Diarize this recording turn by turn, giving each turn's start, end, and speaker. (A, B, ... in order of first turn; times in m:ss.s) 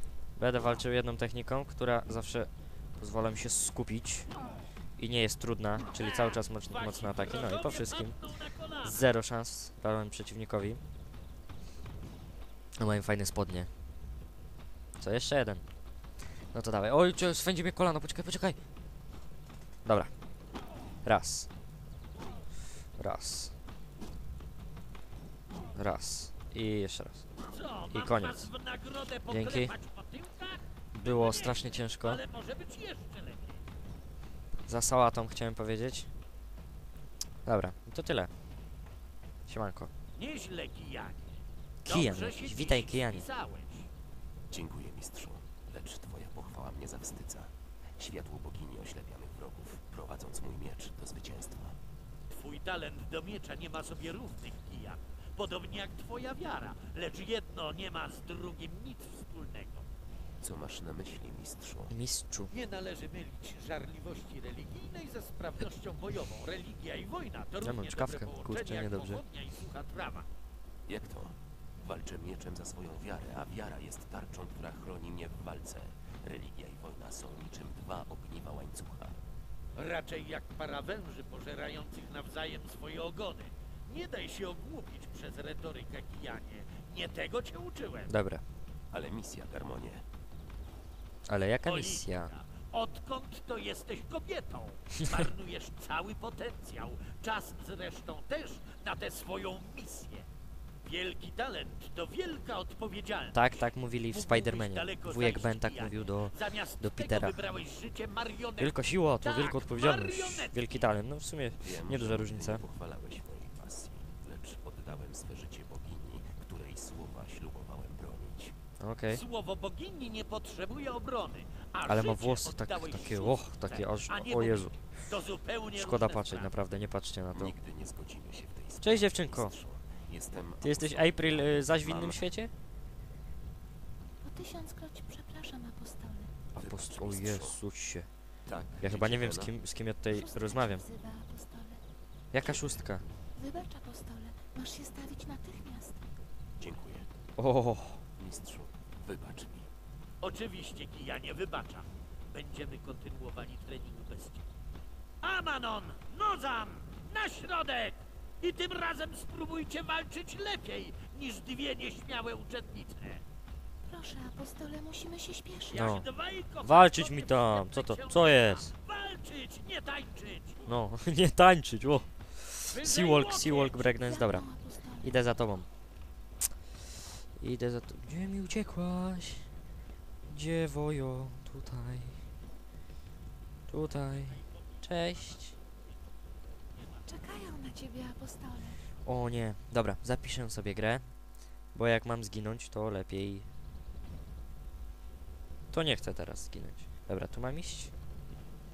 0:00.3-0:04.3 A
0:05.0-0:10.8 A
0:05.9-0:09.0 B
0:12.8-0:13.7 A
0:15.0-0:18.7 A
0:19.8-0:20.1 A
0:21.0-0:21.5 A
0:23.0-0:23.5 A
0:25.7-0:27.3 A
0:27.5-0:33.6 B
0:27.9-0:28.5 A
0:29.3-0:29.7 A
0:30.9-0:32.2 A
0:34.7-0:36.1 A
0:37.4-0:38.3 A
0:39.5-0:39.9 A
0:40.1-0:41.3 B
0:41.8-0:43.2 A
0:41.8-0:43.9 B
0:44.5-0:51.8 C
0:52.3-0:59.8 B
1:00.4-1:01.9 C
1:01.9-1:02.5 A
1:02.5-1:10.3 B
1:07.6-1:09.2 A
1:10.9-1:19.2 C
1:19.7-1:28.1 B
1:28.1-1:28.4 A
1:28.9-1:30.0 C
1:31.2-1:32.3 A
1:31.6-1:40.2 B
1:40.8-1:43.5 B
1:43.3-1:47.4 A
1:44.1-1:50.8 B
1:48.6-1:52.6 A
1:51.6-1:58.6 C
1:58.8-1:59.2 A
1:59.1-2:06.5 B
2:01.8-2:04.9 A
2:05.7-2:07.5 A
2:07.3-2:12.3 C
2:08.8-2:09.6 A
2:10.6-2:12.5 A
2:14.2-2:16.4 D
2:16.5-2:18.1 A
2:16.6-2:17.6 C
2:18.4-2:19.5 C
2:18.8-2:20.8 A
2:20.0-2:21.8 D
2:22.3-2:23.0 A
2:22.4-2:22.8 C
2:23.3-2:26.1 D
2:26.6-2:27.1 C
2:27.4-2:28.0 A
2:28.2-2:29.7 C
2:30.2-2:34.4 B
2:35.2-2:43.2 B
2:43.8-2:45.9 D
2:45.6-2:50.6 B
2:45.8-2:48.7 A
2:50.6-2:55.7 A
2:52.7-2:53.9 B
2:53.9-2:55.3 D
2:57.4-2:59.6 A
3:00.2-3:02.3 A
3:03.7-3:05.6 A
3:07.0-3:08.8 D
3:09.0-3:13.5 A
3:15.7-3:17.9 A